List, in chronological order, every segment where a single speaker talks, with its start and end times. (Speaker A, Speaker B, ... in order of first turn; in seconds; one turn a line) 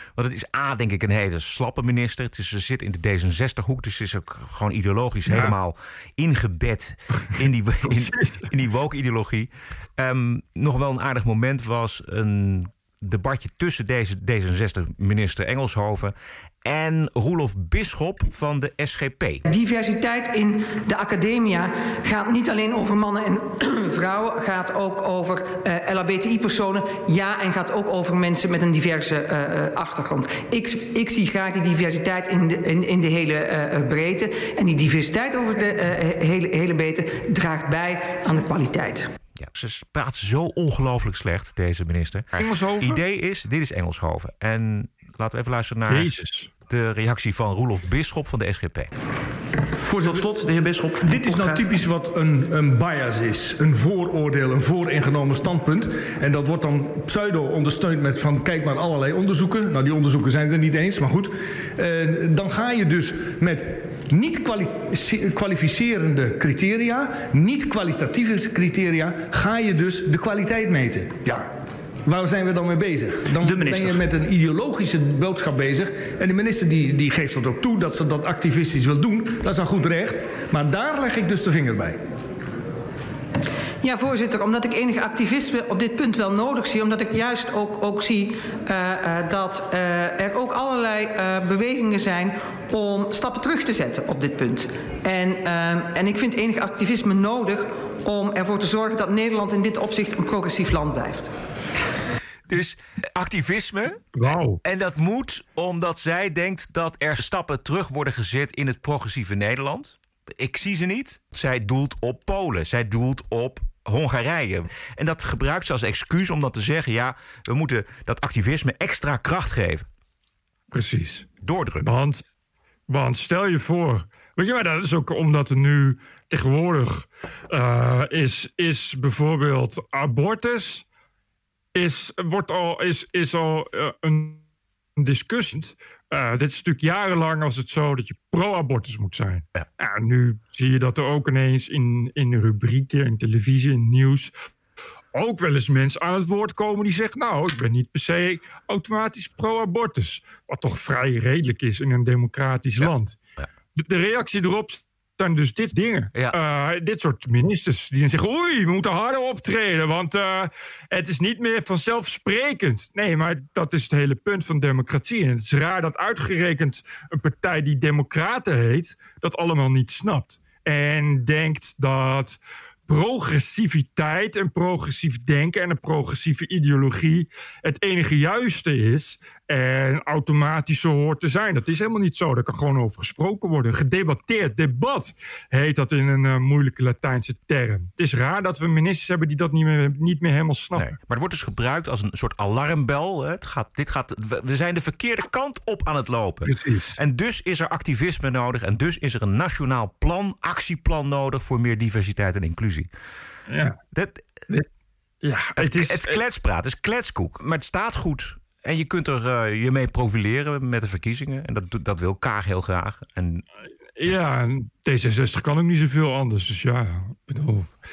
Speaker A: 0.2-19.4
Speaker B: 5.3-5.5
Speaker B: 7.8-8.5
Speaker C: 19.5-39.1
Speaker A: 39.4-46.1
Speaker B: 42.4-43.0
Speaker B: 45.9-46.5
Speaker A: 46.7-48.9
Speaker D: 49.8-71.5
Speaker D: 72.0-82.0
Speaker C: 83.8-101.3
Speaker A: 102.5-119.9
Speaker B: 104.2-104.6
Speaker B: 120.7-121.3
Speaker A: 121.4-121.9
Speaker B: 121.8-122.3
Speaker B: 122.9-130.8
Speaker B: 131.8-134.4
Speaker B: 135.0-144.3
Speaker B: 145.1-153.2
Speaker A: 152.8-153.5
Speaker B: 153.8-190.9
Speaker A: 190.8-202.9
Speaker B: 196.4-197.0
Speaker B: 203.5-203.8
Speaker A: 203.9-204.2
Speaker B: 205.2-206.2
Speaker A: 205.6-213.4
Speaker B: 214.0-217.7